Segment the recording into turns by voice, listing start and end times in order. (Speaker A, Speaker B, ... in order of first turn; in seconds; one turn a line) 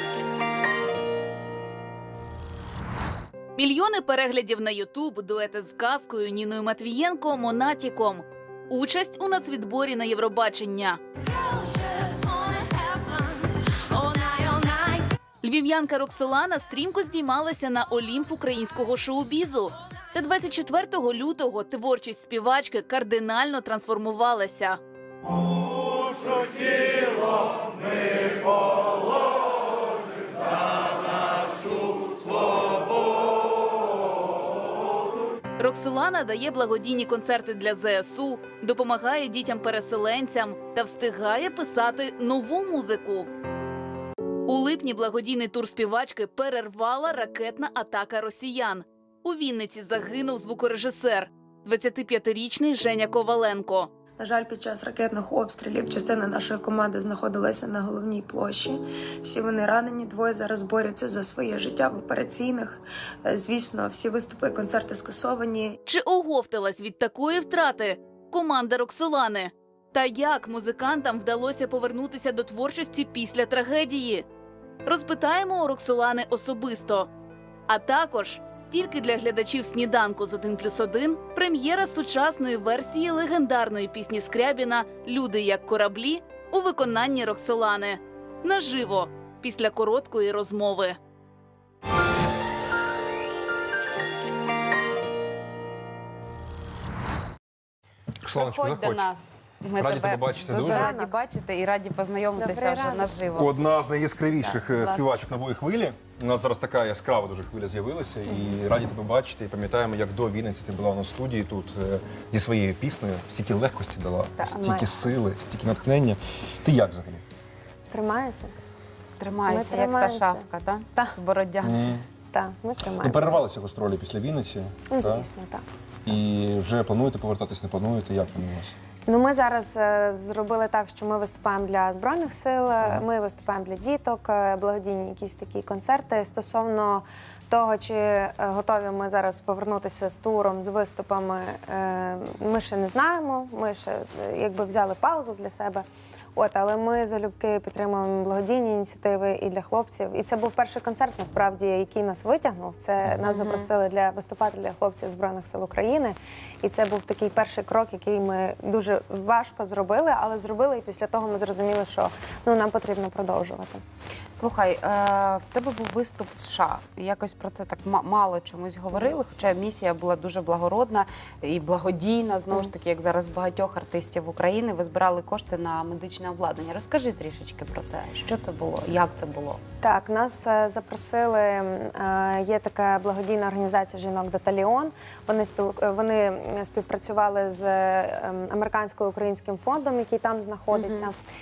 Speaker A: 3.6-11.0
Speaker B: 11.4-15.0
Speaker A: 15.4-24.8
Speaker A: 35.6-43.3
Speaker A: 44.5-53.9
Speaker B: 54.2-65.8
Speaker A: 65.9-74.2
Speaker A: 74.8-77.1
Speaker A: 77.7-91.0
Speaker C: 98.2-99.1
Speaker D: 98.3-103.5
Speaker C: 99.8-100.9
Speaker B: 100.5-101.2
Speaker B: 102.4-103.2
Speaker C: 103.3-117.2
Speaker D: 104.3-105.3
Speaker B: 114.4-114.8
Speaker B: 117.9-118.5
Speaker D: 119.2-121.8
Speaker B: 119.5-120.5
Speaker C: 121.6-122.1
Speaker B: 122.3-123.5
Speaker C: 123.0-125.3
Speaker B: 124.9-125.6
Speaker C: 126.1-128.7
Speaker B: 129.1-163.8
Speaker C: 132.8-133.1
Speaker D: 153.4-153.6
Speaker D: 164.4-179.6
Speaker B: 179.8-191.2